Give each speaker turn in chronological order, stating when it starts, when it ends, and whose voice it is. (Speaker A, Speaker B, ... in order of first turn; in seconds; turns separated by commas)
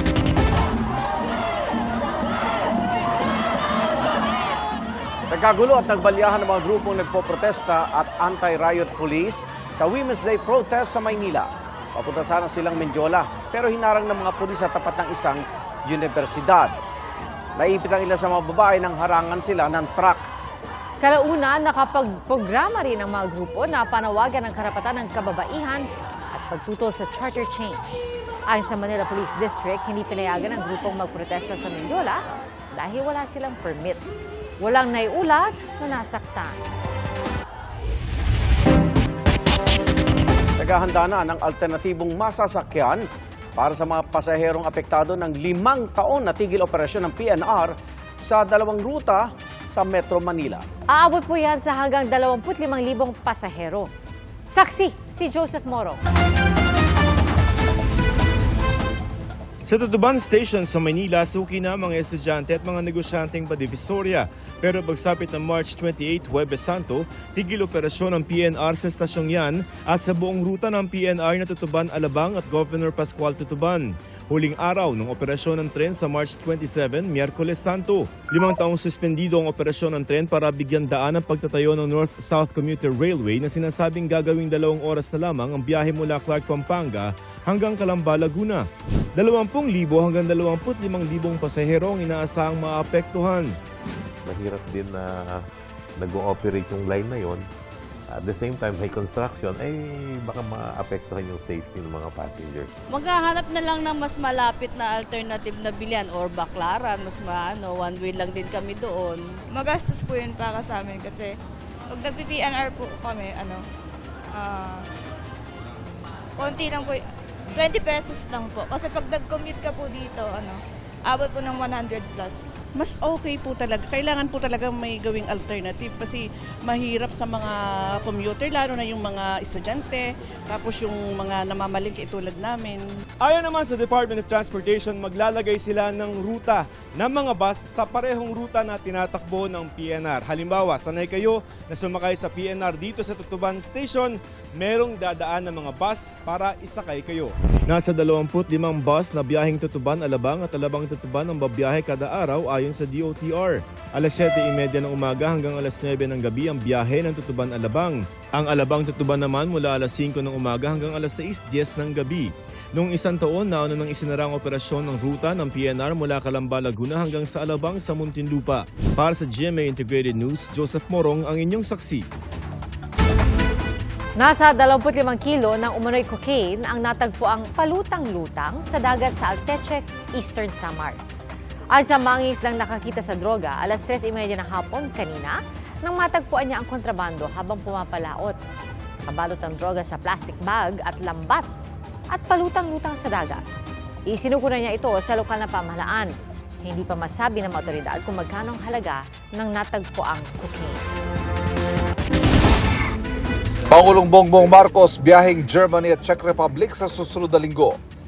Speaker A: 5.3-16.7, Speaker A: 17.6-20.3, Speaker B: 21.0-27.8, Speaker B: 28.5-32.2, Speaker B: 32.7-34.0, Speaker B: 34.6-36.6, Speaker A: 40.6-43.0, Speaker A: 43.5-50.6, Speaker B: 50.9-53.9, Speaker B: 54.5-56.0, Speaker C: 59.7-88.7, Speaker C: 89.2-93.5, Speaker D: 94.3-95.0, Speaker D: 96.0-97.4, Speaker D: 98.2-102.7, Speaker E: 102.9-109.2, Speaker F: 109.5-111.3, Speaker F: 111.9-113.6, Speaker F: 114.3-114.8, Speaker F: 116.4-122.5, Speaker G: 122.8-132.8, Speaker C: 133.2-172.1, Speaker B: 174.2-181.0, Speaker B: 181.7-188.4, Speaker B: 189.1-191.5, Speaker B: 192.1-193.4, Speaker B: 194.1-200.8, Speaker H: 203.7-207.8